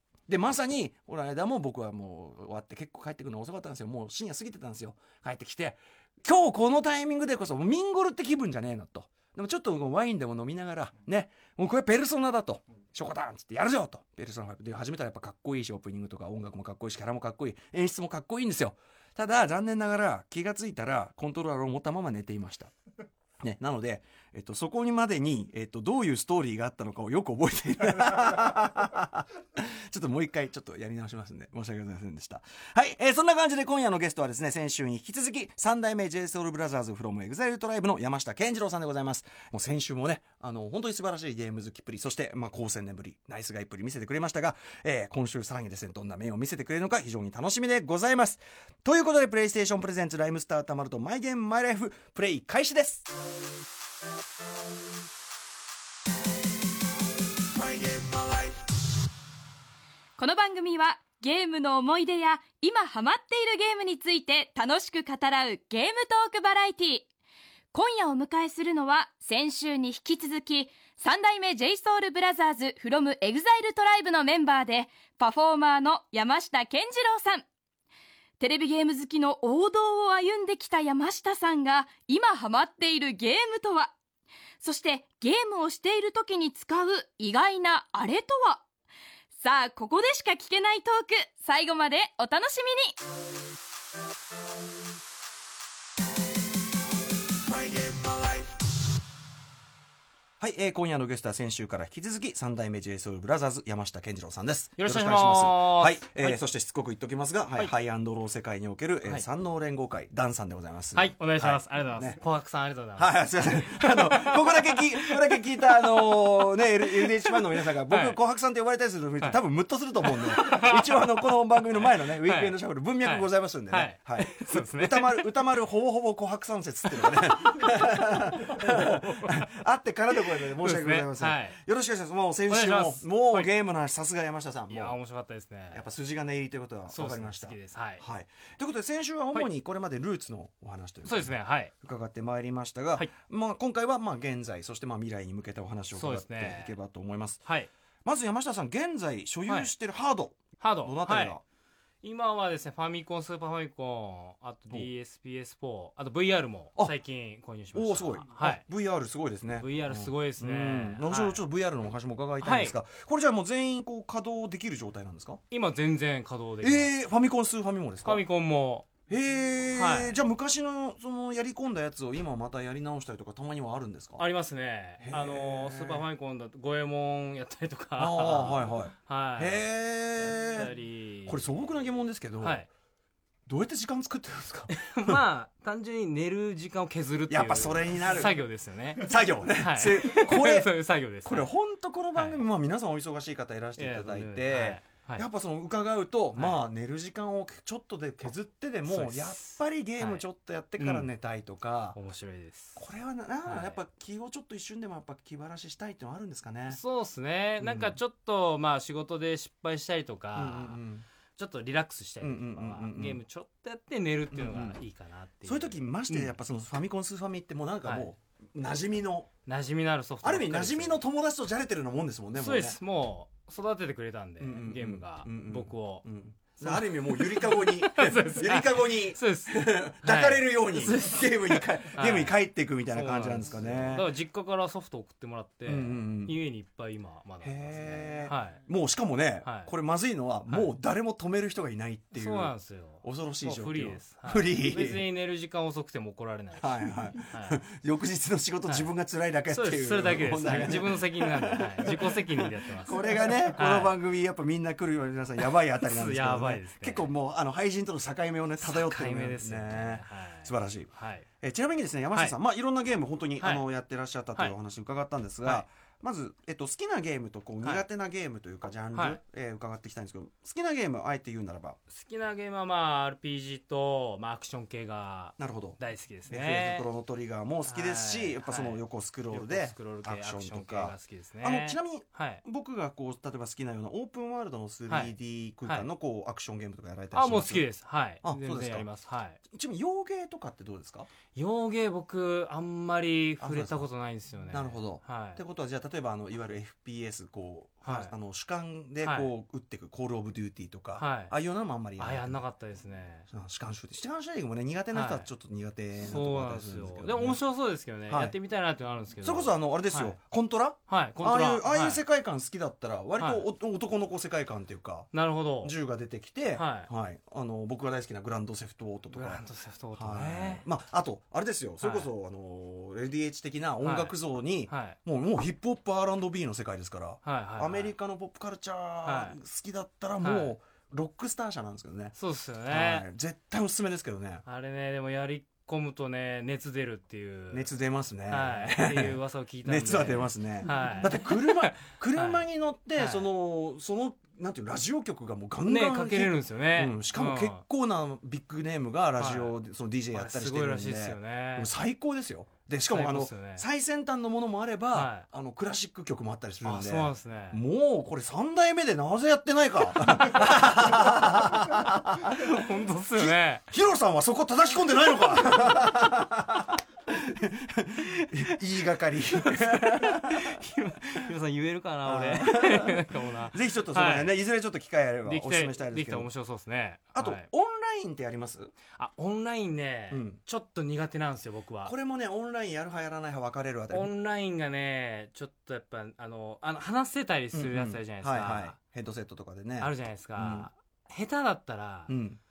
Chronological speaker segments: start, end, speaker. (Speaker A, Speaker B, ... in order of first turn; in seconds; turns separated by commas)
Speaker A: 0.3-22.7, Speaker A: 23.4-53.0, Speaker B: 57.9-58.3, Speaker B: 60.2-67.1, Speaker B: 67.7-77.5, Speaker B: 78.4-83.9, Speaker B: 84.6-88.6, Speaker B: 89.4-93.0, Speaker A: 100.4-112.2, Speaker C: 104.8-106.4, Speaker C: 110.9-118.2, Speaker A: 113.0-135.0, Speaker C: 120.0-125.3, Speaker C: 126.9-129.5, Speaker C: 130.2-131.6, Speaker C: 132.5-133.5, Speaker C: 134.7-135.9, Speaker A: 135.7-147.4, Speaker C: 136.9-138.0, Speaker C: 141.1-141.7, Speaker C: 145.9-146.7, Speaker A: 148.1-151.4, Speaker C: 150.6-151.4, Speaker C: 152.0-158.6, Speaker A: 157.7-165.4, Speaker C: 159.6-161.4, Speaker C: 162.4-162.8, Speaker C: 165.5-166.9, Speaker A: 166.6-168.2, Speaker C: 168.0-168.9, Speaker A: 169.1-174.2, Speaker C: 169.8-170.1, Speaker C: 174.2-179.6, Speaker A: 175.0-176.1, Speaker A: 178.0-180.7, Speaker C: 180.2-181.7, Speaker A: 181.3-182.6, Speaker C: 182.4-182.7, Speaker A: 183.5-185.2, Speaker C: 184.7-191.5, Speaker A: 187.3-188.4, Speaker A: 189.0-190.7, Speaker A: 191.2-202.0, Speaker C: 192.1-192.4, Speaker C: 193.8-195.3, Speaker C: 196.3-196.6, Speaker C: 198.9-200.2, Speaker C: 200.8-201.1, Speaker C: 201.9-202.8, Speaker A: 202.8-206.8, Speaker C: 203.4-203.8, Speaker C: 206.7-210.8, Speaker A: 207.6-207.9, Speaker A: 210.3-211.0, Speaker C: 211.3-216.3, Speaker A: 212.2-213.2, Speaker A: 214.3-214.8, Speaker A: 215.4-219.3, Speaker C: 217.8-218.1, Speaker C: 219.5-221.0, Speaker A: 220.2-222.8, Speaker C: 222.3-226.1, Speaker A: 224.4-234.1, Speaker C: 226.6-232.4, Speaker C: 232.9-238.6, Speaker A: 235.7-236.3, Speaker A: 237.4-245.0, Speaker C: 239.4-239.7, Speaker C: 242.1-247.6, Speaker A: 246.6-271.8, Speaker C: 248.7-248.9, Speaker C: 249.5-254.0, Speaker C: 255.8-257.1, Speaker C: 258.6-261.3, Speaker C: 262.1-262.4, Speaker C: 263.4-263.6, Speaker C: 268.9-269.2, Speaker C: 271.9-276.9, Speaker A: 275.4-275.8, Speaker A: 276.3-287.7, Speaker C: 277.7-282.4, Speaker C: 284.9-285.1, Speaker C: 287.1-289.4, Speaker A: 288.2-288.9, Speaker A: 289.5-291.1, Speaker C: 291.4-295.4, Speaker A: 293.4-293.9, Speaker A: 294.5-302.4, Speaker C: 297.9-298.1, Speaker C: 299.0-299.3, Speaker C: 301.0-301.4, Speaker C: 302.0-303.3, Speaker A: 303.3-307.4, Speaker C: 304.9-305.3, Speaker C: 306.0-310.2, Speaker A: 308.1-308.4, Speaker A: 309.2-319.4, Speaker C: 310.9-312.0, Speaker C: 313.2-313.4, Speaker C: 315.1-315.8, Speaker C: 316.6-316.9, Speaker C: 319.1-320.6, Speaker A: 320.0-332.2, Speaker C: 321.8-322.1, Speaker C: 323.8-324.1, Speaker C: 324.7-325.0, Speaker C: 327.2-327.9, Speaker C: 329.0-329.4, Speaker C: 330.2-330.6, Speaker C: 332.2-333.1, Speaker A: 332.7-334.4, Speaker C: 334.5-337.7, Speaker A: 337.5-370.6, Speaker C: 338.3-343.3, Speaker C: 345.6-347.6, Speaker C: 349.2-349.5, Speaker C: 350.1-351.7, Speaker C: 352.9-353.7, Speaker C: 354.9-355.2, Speaker C: 356.6-357.6, Speaker C: 360.2-360.5, Speaker C: 362.2-363.6, Speaker C: 369.4-374.4, Speaker A: 372.1-376.3, Speaker C: 375.2-377.5, Speaker A: 377.1-378.7, Speaker C: 378.9-381.9, Speaker A: 380.1-380.4, Speaker A: 381.9-384.1, Speaker C: 383.9-388.8, Speaker A: 387.5-390.7, Speaker C: 389.8-392.1, Speaker A: 392.1-392.4